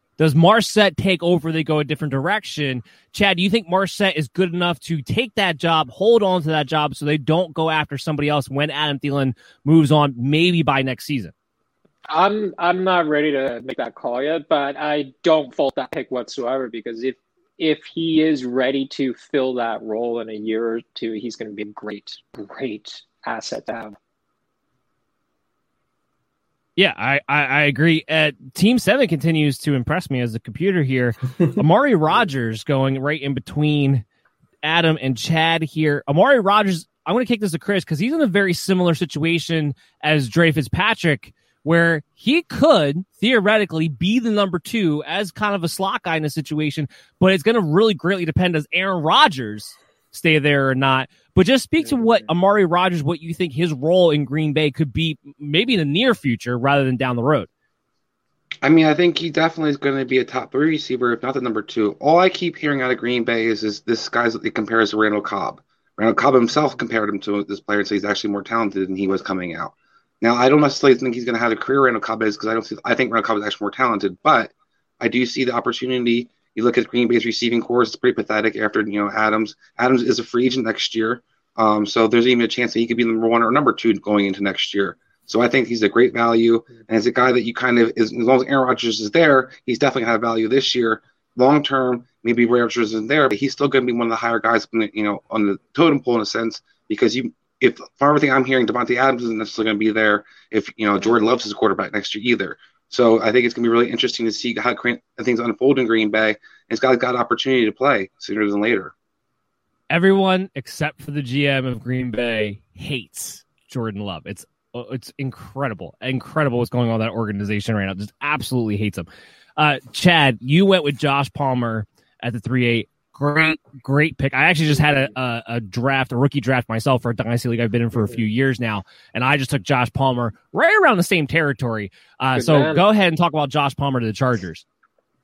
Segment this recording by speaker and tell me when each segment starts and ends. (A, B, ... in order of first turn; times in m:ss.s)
0:00.2-0:11.3 A
0:12.1-0:24.0 B
0:26.8-0:34.0 A
0:34.6-0:57.5 A
0:51.9-0:52.2 B
0:58.6-1:48.9 C
1:49.9-2:14.6 A
2:04.8-2:05.1 B
2:08.0-2:08.2 B
2:12.3-2:12.8 B